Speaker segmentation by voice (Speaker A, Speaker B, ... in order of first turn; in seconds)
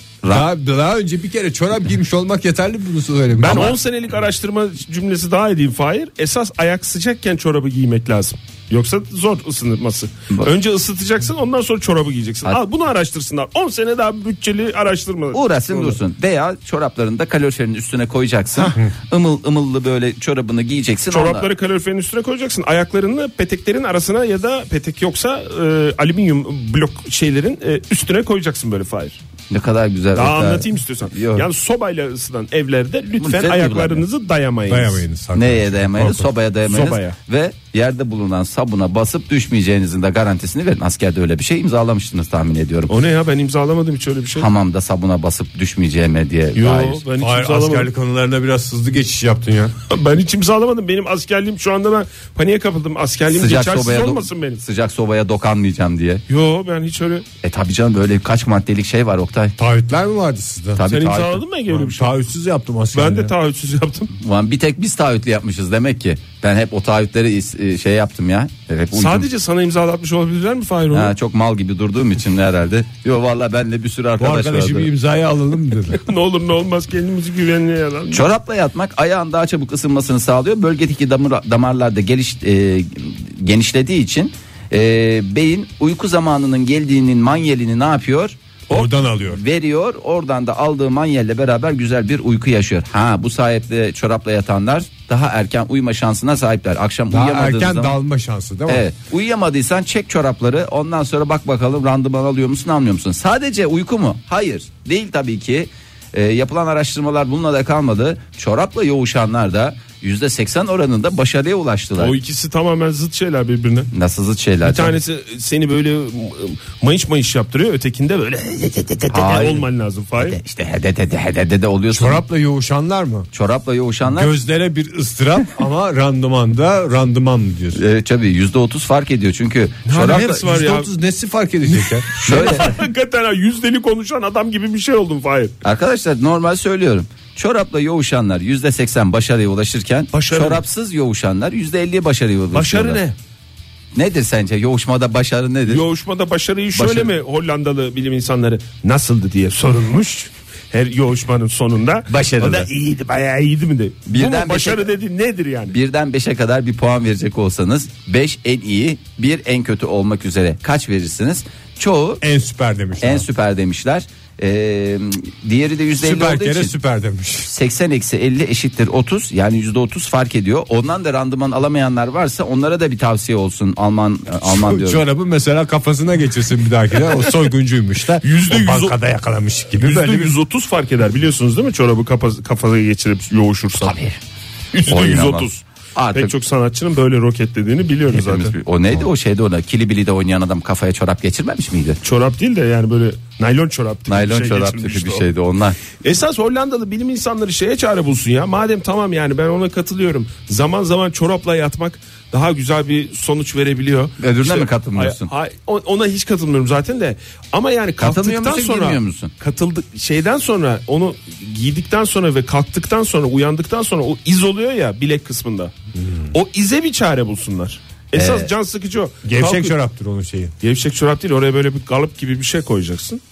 Speaker A: 0.2-0.5, 3.5-3.8, 15.3-21.5, 29.5-31.5, 33.2-34.0, 35.4-42.9, 44.4-47.0, 53.3-56.2, 57.4-59.5, 60.8-61.4, 64.2-69.3, 70.9-74.9, 78.1-98.0, 98.7-112.2, 113.9-115.0, 119.1-119.7, 120.2-122.2, 123.3-124.3, 127.8-130.4, 132.2-132.8, 135.6-143.0, 143.9-145.8, 146.7-147.1, 152.1-152.7, 154.1-154.9, 155.7-162.2, 163.0-166.7, 167.5-175.0, 183.8-184.2, 184.9-186.3, 188.1-192.0, 194.1-195.8, 204.2-205.3, 208.0-209.3, 218.1-218.5
Speaker B: 0.3-3.8, 34.7-36.3, 47.2-49.8, 59.6-60.8, 61.7-63.3, 74.2-76.0, 88.7-89.4, 97.1-98.8, 121.9-123.3, 124.1-127.8, 130.1-132.2, 162.2-163.2, 166.0-167.5, 174.4-180.4, 216.0-216.3, 219.2-220.5
Speaker C: 3.4-16.0, 21.1-29.2, 30.1-35.0, 36.6-37.1, 42.9-44.5, 46.5-47.9, 49.9-54.6, 56.3-57.2, 60.9-62.1, 62.9-64.1, 68.9-71.1, 75.9-78.3, 112.0-113.9, 114.6-120.4, 129.9-130.9, 131.9-135.6, 140.1-140.6, 142.5-143.2, 145.7-155.8, 178.2-179.0, 179.8-184.0, 184.7-188.6, 192.0-195.2, 196.0-215.7, 216.3-219.8, 220.6-223.2